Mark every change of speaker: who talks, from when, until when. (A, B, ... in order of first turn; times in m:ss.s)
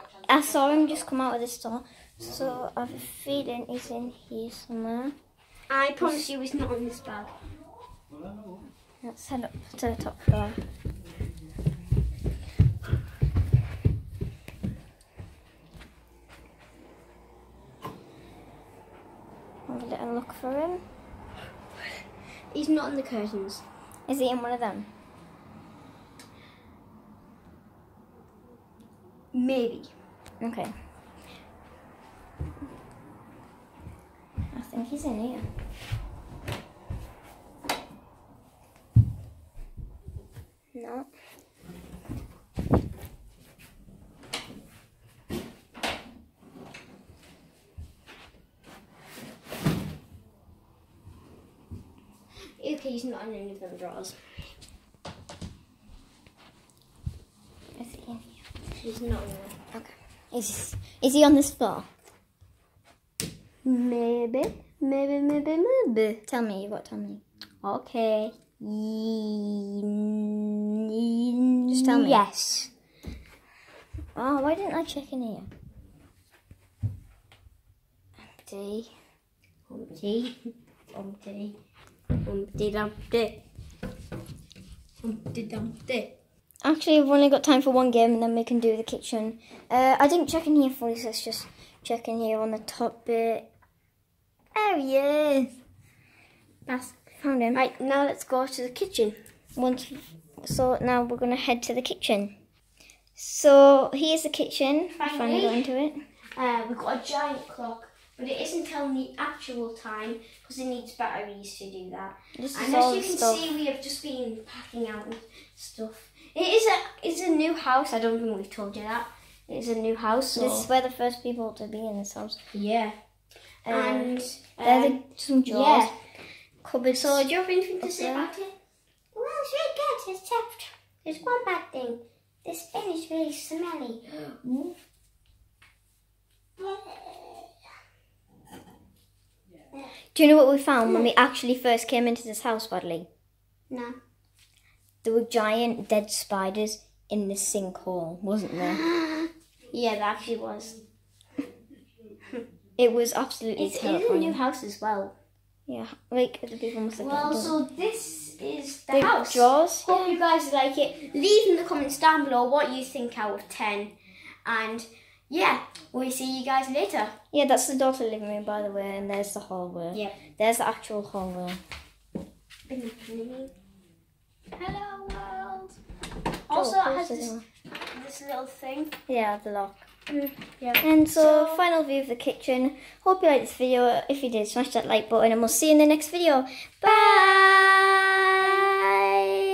0:00.3-0:05.1 A
0:05.7-0:07.4 B
0:06.0-0:06.2 A
0:09.0-0:10.6 A
0:19.7-0:20.8 A
0:22.5-0:23.6 B
0:24.1-0:24.9 A
0:29.3-0:29.9 B
0:30.4-0:30.7 A
0:34.5-0:35.4 A
0:40.7-0:41.1 A
0:52.6-0:54.2 B
0:57.8-0:58.2 A
0:58.8-0:59.6 B
0:59.7-1:01.9 A
1:03.6-1:06.2 B
1:06.2-1:07.2 A
1:07.6-1:12.7 B
1:11.7-1:12.2 A
1:14.2-1:15.5 A
1:18.4-1:18.9 A
1:19.7-1:21.6 B
1:22.2-1:23.4 B
1:25.0-1:26.2 B
1:26.6-1:33.5 A
1:34.5-1:35.5 A
1:36.7-1:37.0 B
1:37.2-1:37.6 A
1:37.5-1:39.2 B
1:39.6-1:42.3 A
1:43.2-1:46.0 A
1:45.0-1:45.7 B
1:46.4-2:00.7 B
1:52.4-1:53.5 A
2:00.4-2:02.4 A
2:02.5-2:03.0 B
2:03.7-2:06.0 A
2:03.7-2:06.0 B
2:06.6-2:07.3 A
2:06.9-2:08.5 B
2:07.8-2:08.3 A
2:09.1-2:14.7 B
2:16.6-2:17.5 B
2:20.2-2:23.1 A
2:20.8-2:21.1 B
2:23.7-2:24.0 B
2:25.0-2:28.8 A
2:28.6-2:30.8 B
2:32.8-2:34.4 A
2:33.6-2:35.1 B
2:35.7-2:37.6 A
2:37.0-2:47.2 B
2:38.9-2:40.2 A
2:47.3-2:51.6 A
2:49.9-2:50.2 B
2:52.7-2:53.5 B
2:54.6-2:55.8 B
2:56.5-2:59.0 B
2:56.5-2:57.4 A
2:59.1-3:09.0 A
3:00.6-3:01.6 B
3:06.9-3:07.5 B